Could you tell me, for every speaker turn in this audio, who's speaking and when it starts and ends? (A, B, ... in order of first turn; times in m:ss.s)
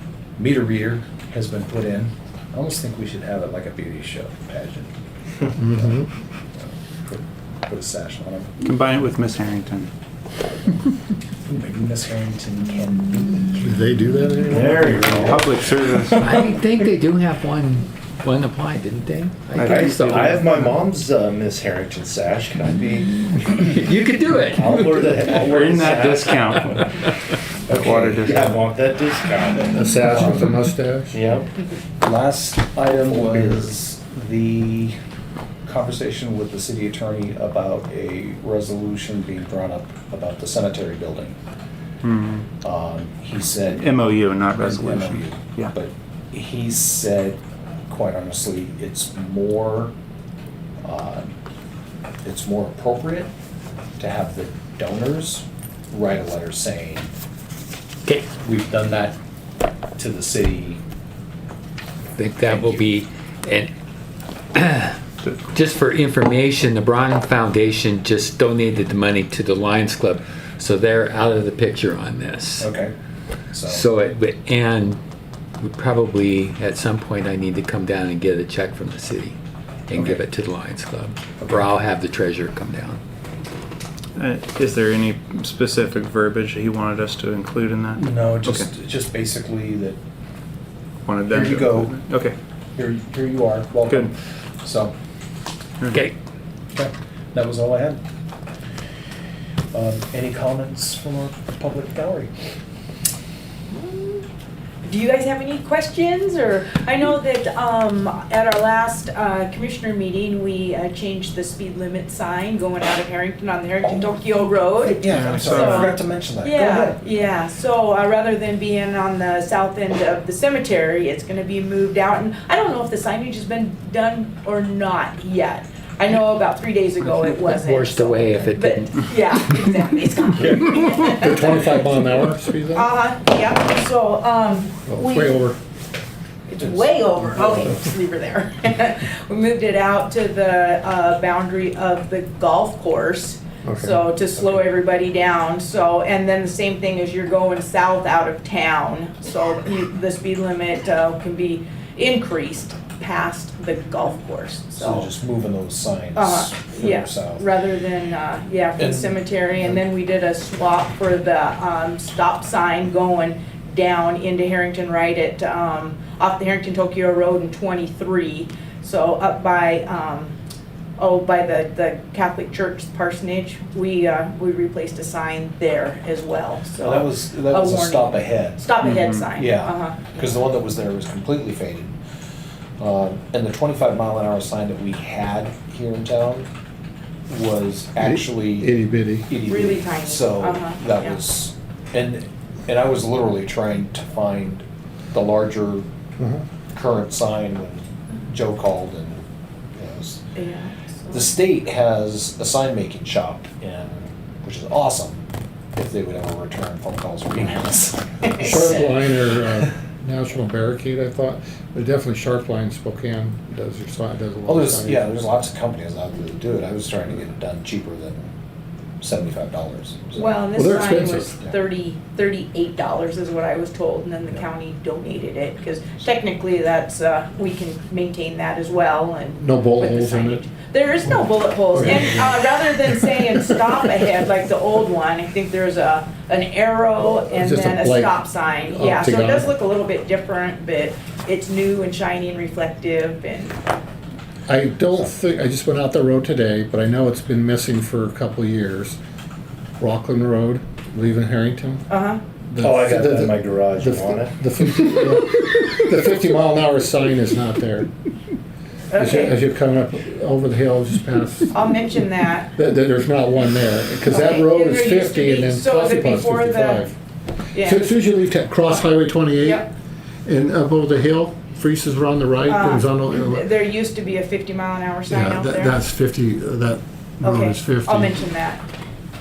0:00.4-0:04.9 A
0:05.5-0:08.5 A
0:05.6-0:06.1 B
0:08.6-0:09.9 C
0:11.4-0:13.6 A
0:13.6-0:15.4 B
0:14.5-0:15.5 D
0:15.3-0:16.3 C
0:16.2-0:20.6 E
0:19.6-0:20.4 C
0:19.6-0:26.8 D
0:23.5-0:25.1 E
0:25.4-0:26.8 C
0:27.7-0:29.9 D
0:27.7-0:28.7 C
0:29.7-0:31.2 B
0:30.0-0:30.5 A
0:31.1-0:31.5 D
0:32.0-0:35.0 A
0:33.0-0:33.7 B
0:35.7-0:41.4 A
0:42.0-0:42.5 C
0:42.6-0:43.9 A
0:43.8-0:45.7 C
0:44.6-0:49.9 A
0:50.8-0:51.3 A
0:52.2-0:53.3 A
0:54.0-0:57.1 A
0:58.4-0:59.2 A
1:00.0-1:00.8 A
1:02.2-1:03.7 E
1:02.5-1:02.8 A
1:04.6-1:05.0 E
1:05.5-1:12.7 E
1:12.6-1:12.9 A
1:13.5-1:13.9 A
1:13.7-1:15.0 E
1:15.6-1:19.4 E
1:19.9-1:23.0 E
1:19.9-1:20.2 A
1:21.4-1:21.7 A
1:24.2-1:28.7 C
1:28.0-1:30.0 A
1:31.1-1:32.4 C
1:31.3-1:32.0 A
1:32.8-1:34.9 A
1:35.8-1:36.1 C
1:36.8-1:38.0 A
1:39.7-1:42.3 A
1:43.7-1:44.2 F
1:44.8-2:11.7 F
1:53.8-1:54.1 A
1:54.8-1:57.0 A
1:55.1-1:55.9 C
2:07.6-2:09.0 E
2:10.5-2:12.9 B
2:12.7-2:15.4 F
2:14.9-2:15.6 B
2:16.5-2:35.1 F
2:16.6-2:17.8 A
2:23.6-2:24.0 B
2:34.8-2:37.4 A
2:36.2-2:50.4 F
2:38.8-2:39.1 A
2:51.0-3:00.0 F
2:56.8-2:58.8 A
2:58.8-2:59.2 C
2:59.3-3:01.9 A
3:02.8-3:06.5 A
3:07.3-3:15.9 A
3:08.0-3:09.3 B
3:09.5-3:11.2 F
3:16.2-3:16.4 B
3:16.7-3:20.2 A
3:20.4-3:21.3 F
3:21.1-3:28.8 A
3:28.4-3:28.6 F
3:28.4-3:35.1 B
3:34.5-3:38.3 A
3:39.0-3:41.5 A
3:40.2-4:03.6 F
3:40.5-3:41.3 B
3:49.4-3:50.4 B
3:51.7-3:52.4 B
3:53.0-3:53.9 B
3:57.3-3:59.5 B
4:04.5-4:09.0 B
4:09.8-4:11.8 B
4:11.9-4:12.2 F
4:12.5-4:17.9 B
4:12.6-4:14.3 D
4:18.9-4:19.4 F
4:19.0-4:21.9 B
4:21.5-4:22.5 F
4:22.5-4:27.0 B
4:24.1-4:26.9 F
4:27.5-4:28.0 F
4:27.6-4:29.7 B
4:29.4-4:29.7 F
4:30.3-4:33.5 B
4:32.5-4:35.8 F
4:35.1-4:38.2 B
4:37.2-4:38.6 F